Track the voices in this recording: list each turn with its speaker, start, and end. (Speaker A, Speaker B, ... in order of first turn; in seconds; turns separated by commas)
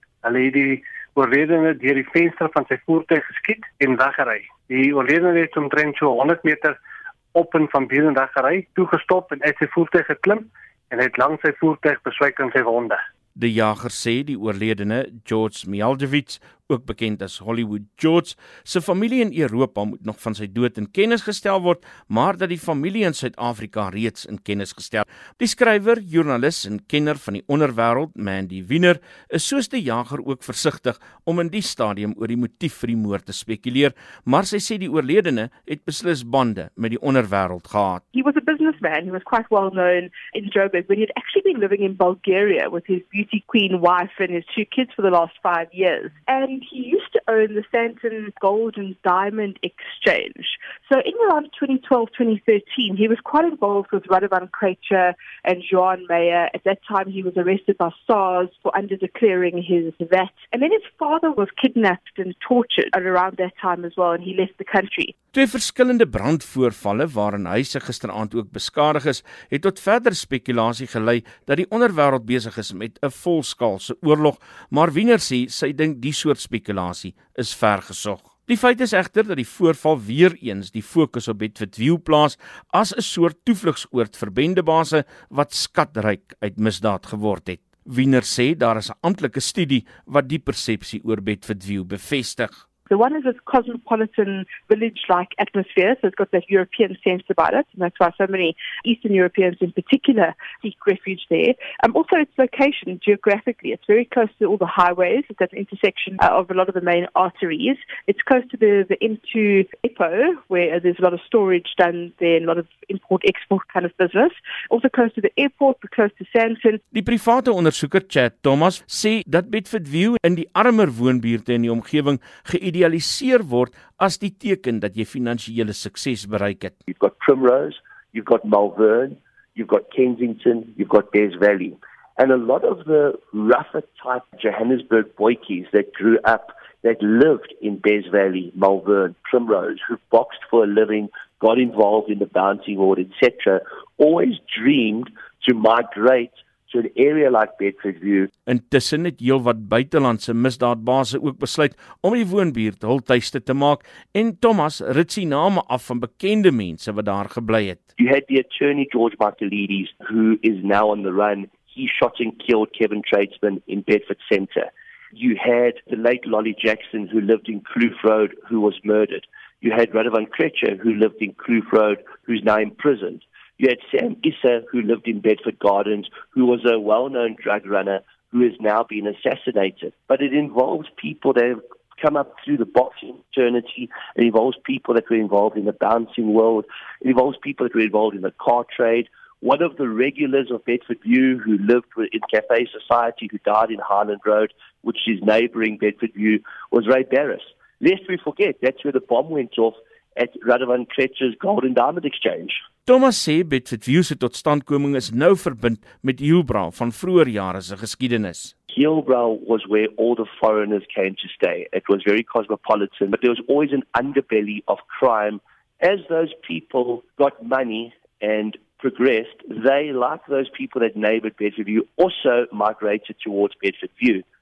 Speaker A: 0.2-6.8, Speaker A: 7.3-13.0, Speaker B: 13.3-38.0, Speaker C: 38.1-65.1, Speaker B: 65.3-92.6, Speaker C: 92.9-116.8, Speaker B: 116.9-126.8, Speaker D: 126.9-148.3, Speaker B: 148.5-157.8, Speaker D: 158.0-202.6, Speaker B: 202.9-208.5, Speaker D: 208.7-224.2